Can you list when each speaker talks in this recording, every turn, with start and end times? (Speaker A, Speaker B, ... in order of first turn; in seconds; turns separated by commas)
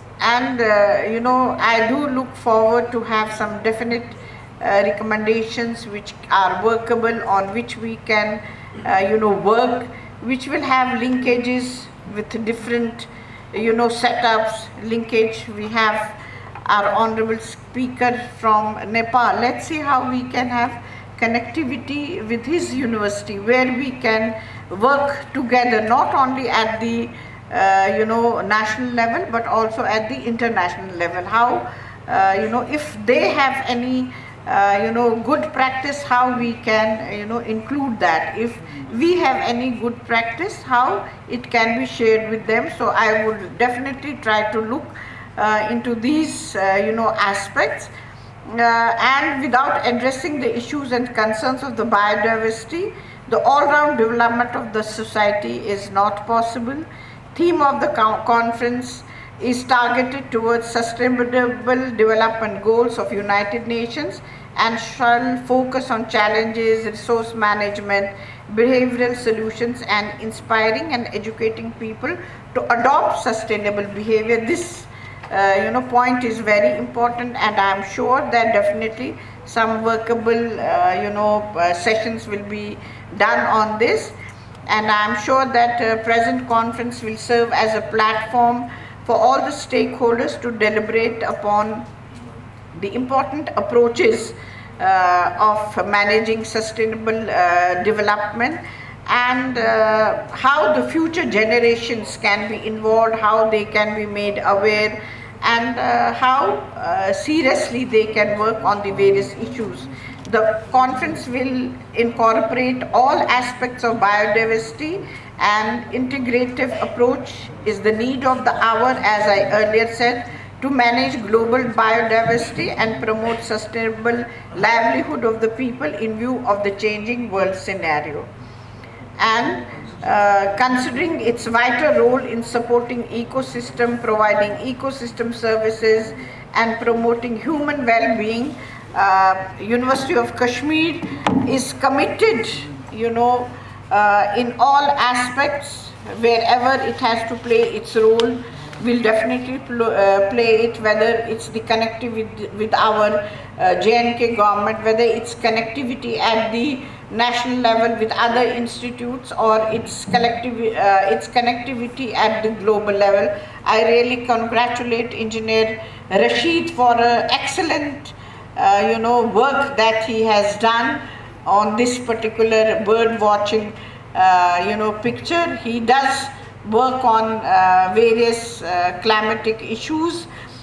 Speaker A: 0.2-16.1, Speaker A: 16.7-47.9, Speaker A: 48.5-84.1, Speaker A: 84.7-91.9, Speaker A: 92.7-128.3, Speaker A: 129.2-180.3